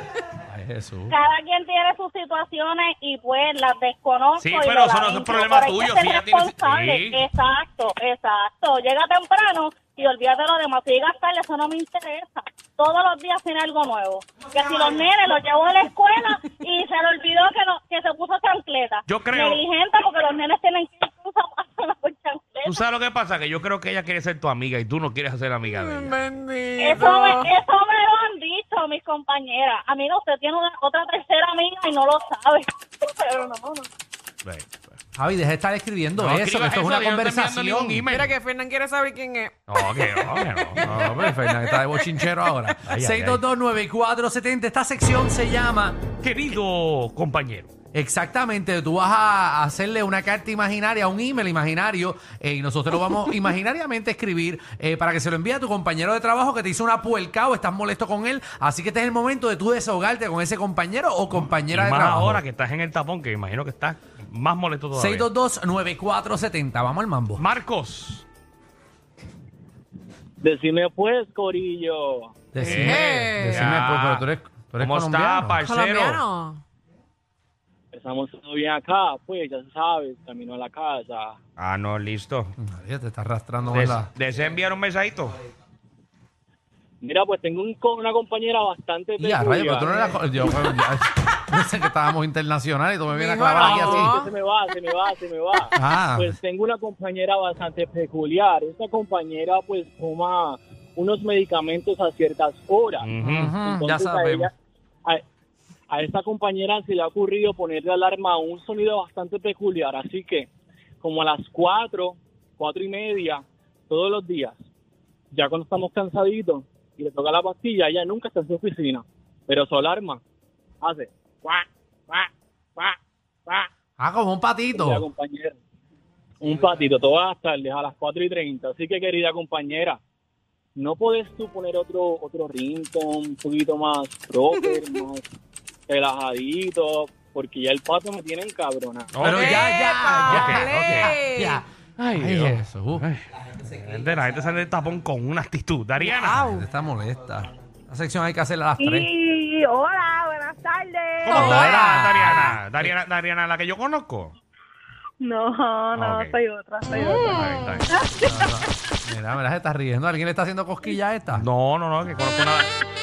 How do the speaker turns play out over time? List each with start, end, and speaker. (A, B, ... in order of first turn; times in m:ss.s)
0:00.3-0:01.2 A
0:01.1-0:22.8 B
0:04.4-0:07.2 C
0:19.1-0:19.6 C
0:22.6-0:26.2 C
0:25.6-0:27.6 D
0:26.8-0:33.9 B
0:34.4-0:35.0 C
0:35.1-0:38.1 A
0:36.2-0:38.3 C
0:38.1-0:42.5 D
0:39.7-0:41.1 C
0:40.8-0:46.0 A
0:42.9-0:43.4 C
0:46.2-0:47.7 C
0:47.9-1:02.4 A
1:01.6-1:05.3 C
1:04.9-1:07.4 A
1:07.4-1:08.2 C
1:10.4-1:12.3 E
1:12.5-1:15.6 A
1:12.6-1:14.2 C
1:12.6-1:13.7 D
1:14.8-1:16.2 C
1:15.6-1:16.6 D
1:17.9-1:21.4 E
1:21.6-1:22.5 C
1:22.6-1:24.1 A
1:23.7-1:25.4 C
1:27.0-1:30.1 E
1:29.2-1:34.2 A
1:33.1-1:34.3 D
1:33.6-1:44.5 E
1:35.7-1:36.3 A
1:43.0-1:43.5 C
1:43.2-1:44.5 A
1:45.9-1:50.5 E
1:51.0-1:54.5 E
1:55.3-2:00.2 E
2:00.8-2:03.0 E
2:04.0-2:05.0 A
2:04.7-2:05.6 E
2:06.4-2:10.0 E
2:10.8-2:15.2 E
2:14.5-2:15.0 D
2:15.9-2:19.2 E
2:19.1-2:19.7 C
2:19.2-2:23.0 A
2:19.2-2:21.6 D
2:20.2-2:21.1 C
2:22.0-2:26.5 C
2:26.0-2:26.6 D
2:26.4-2:29.1 A
2:28.8-2:31.7 F
2:31.2-2:34.3 C
2:31.3-2:32.6 A
2:35.2-2:38.6 F
2:35.9-2:36.4 C
2:37.0-2:37.9 D
2:37.2-2:37.9 C
2:38.2-2:41.4 A
2:41.3-2:42.7 C